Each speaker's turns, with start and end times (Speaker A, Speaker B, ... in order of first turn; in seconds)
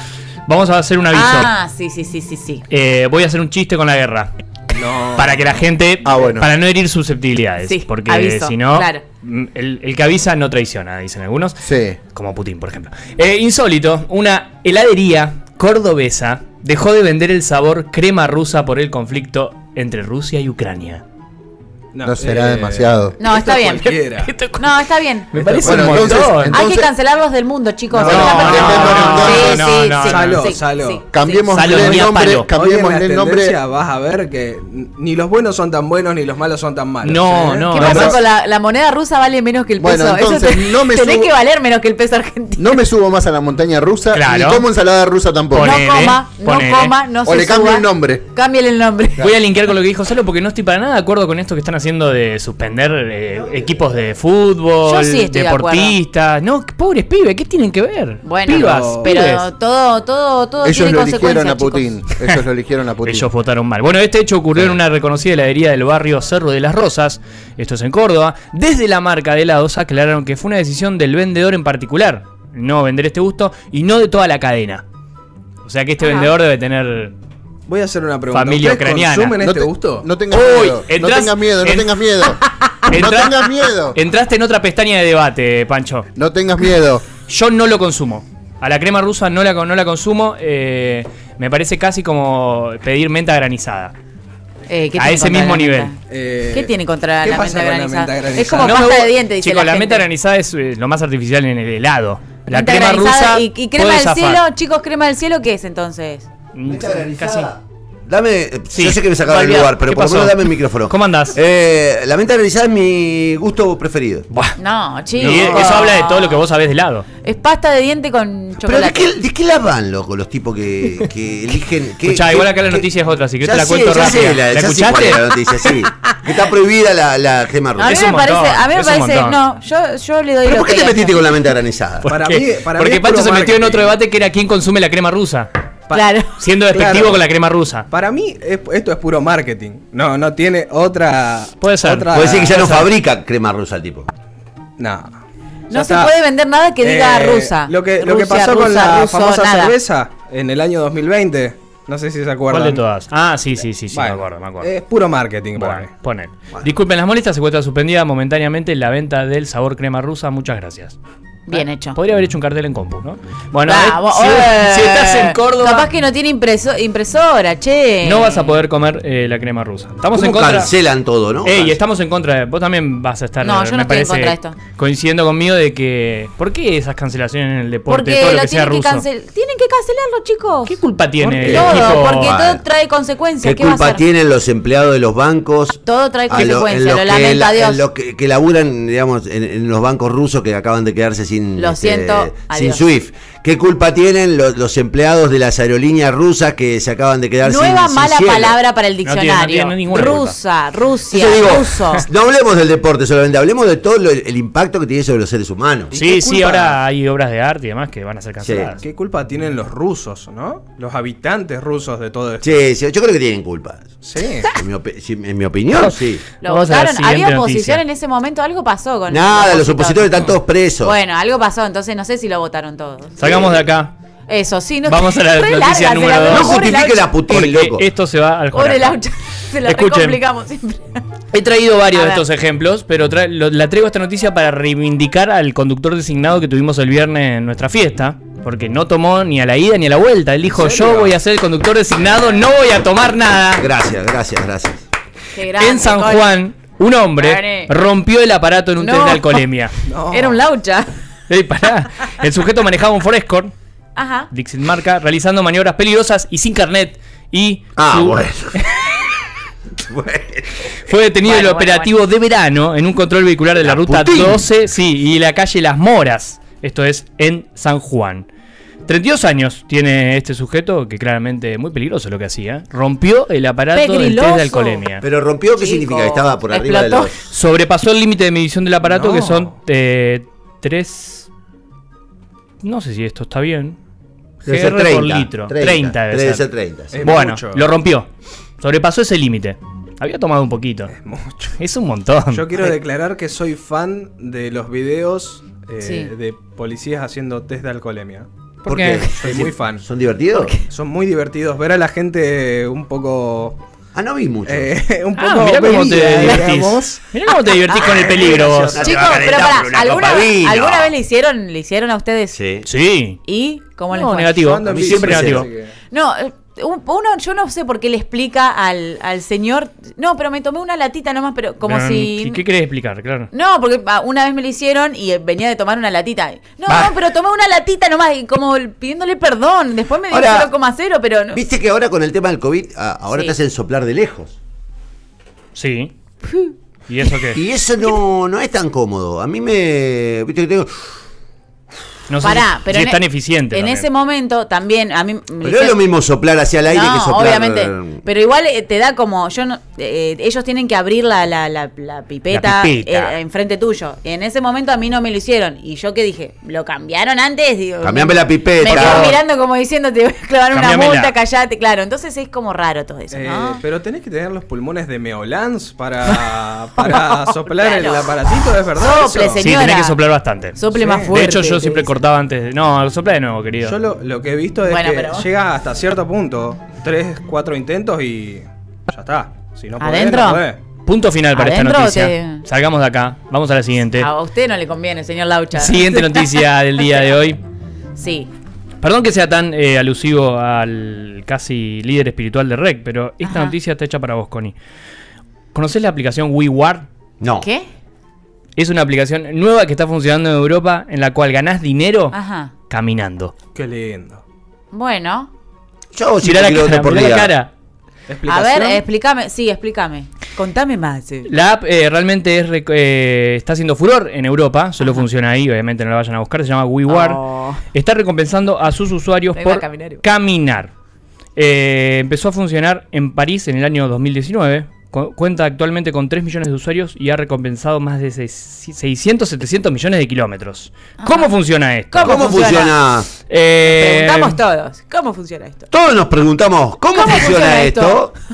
Speaker A: 0.5-1.5, 2.7-4.3, 5.2-21.0, 24.2-26.6, 28.0-30.5, 31.5-32.5, 37.0-38.2, 44.1-44.6, 45.5-47.0, 49.2-59.5, 63.0-74.8, 75.6-77.1, 78.3-79.4, 80.3-81.9, 82.9-86.1, 87.1-93.9, 95.0-95.9, 98.6-104.4, 106.5-107.5, 108.7-111.4, 114.3-114.6, 115.2-117.1, 122.0-125.2, 127.9-129.4, 132.0-135.5, 136.4-137.9, 141.6-142.8, 152.5-154.7, 155.5-161.0, 161.5-165.9, 168.0-170.7, 171.4-179.1, 180.7-182.3, 199.0-200.4, 205.9-208.8, 215.8-217.8, 223.2-223.9, 224.9-226.7, 227.2-230.2, 231.3-243.7, 245.5-249.7, 251.3-253.5, 254.3-258.8, 260.8-268.3, 268.9-275.0, 277.2-281.3, 282.6-283.8, 284.4-286.5, 287.0-290.9, 291.6-292.7, 298.6-299.1, 305.1-309.3, 312.7-313.2, 313.9-315.5, 321.6-323.3, 326.7-326.9, 335.6-335.9, 336.9-337.4, 342.1-343.9, 352.3-353.2, 358.6-359.2, 360.5-361.2, 369.4-373.8, 380.9-384.1, 385.6-387.4, 388.8-394.6, 395.5-396.9, 398.6-402.2, 402.7-403.4, 406.2-407.5, 411.3-417.2, 417.7-420.7, 421.4-432.6, 433.2-434.4
Speaker B: 1.1-2.7, 7.6-9.0, 23.2-32.1, 37.7-42.8, 45.6-49.3, 54.8-56.0, 58.2-61.9, 76.0-76.3, 94.7-96.0, 96.5-100.1, 102.5-106.3, 114.6-116.4, 117.2-119.1, 127.8-131.4, 135.9-136.3, 145.7-149.8, 161.5-162.0, 163.7-168.6, 173.4-174.6, 177.9-184.0, 185.8-187.9, 191.6-192.8, 197.4-202.1, 216.4-220.3, 220.8-223.2, 224.3-227.1, 228.5-231.1, 231.9-232.2, 240.6-240.9, 245.3-246.4, 247.2-247.7, 248.8-249.4, 250.1-250.9, 254.0-254.3, 261.2-262.0, 273.7-274.9, 275.6-277.2, 295.8-296.1, 307.5-312.4, 313.3-314.6, 315.9-322.4, 323.3-331.4, 336.2-336.6, 342.2-345.8, 346.7-363.6, 366.8-370.0, 370.6-372.0, 374.7-375.3, 379.8-380.4, 381.3-382.4, 384.0-386.4, 388.0-388.3, 393.2-393.6, 397.4-397.7, 402.1-402.5, 404.7-405.3, 408.2-411.3, 414.8-415.1, 416.9-417.6, 419.3-420.0, 431.0-431.4, 431.9-432.7, 433.6-435.7, 436.9-438.1
Speaker C: 4.7-5.5, 21.9-24.3, 25.4-26.1, 27.9-31.1, 32.3-38.2, 58.5-59.1, 77.7-80.1, 96.1-98.9, 115.2-115.7, 132.1-133.9, 135.9-137.2, 137.9-142.9, 144.8-145.2, 145.7-146.1, 146.8-152.8, 153.9-155.9, 205.9-206.8, 208.8-212.6, 214.0-214.5, 240.6-241.2, 249.8-250.4, 278.8-279.5, 286.9-287.7, 290.9-291.6, 292.3-298.3, 299.2-299.9, 300.7-303.6, 304.5-307.0, 314.3-315.7, 363.1-369.5, 370.7-371.2, 373.6-380.6, 403.6-404.2, 408.1-408.9
Speaker D: 6.0-6.5, 11.6-12.0, 22.1-23.2, 25.6-26.8, 28.3-29.6, 31.1-33.6, 37.8-38.2, 39.8-41.3, 42.6-45.8, 47.2-48.2, 60.6-63.3, 79.3-84.0, 86.2-87.0
Speaker E: 53.3-54.0, 106.7-114.3, 115.3-115.7, 118.6-122.9, 123.4-128.1, 130.4-132.1, 142.1-144.1, 170.1-171.8, 181.4-182.6, 183.4-198.6, 199.9-200.2, 201.1-205.9, 208.4-208.7, 212.4-213.9, 214.5-216.2, 219.1-220.9, 223.2-223.7, 226.3-227.8, 243.6-244.8, 257.8-259.0, 259.8-260.8, 263.6-264.5, 275.0-277.3, 284.4-287.0, 298.7-300.6, 303.9-304.7, 307.8-310.9, 312.3-312.7, 314.6-315.5, 330.1-330.5, 331.3-334.4, 337.3-340.9, 345.4-348.0, 357.8-359.1, 397.2-397.5, 405.9-407.3, 432.1-433.1, 435.7-438.1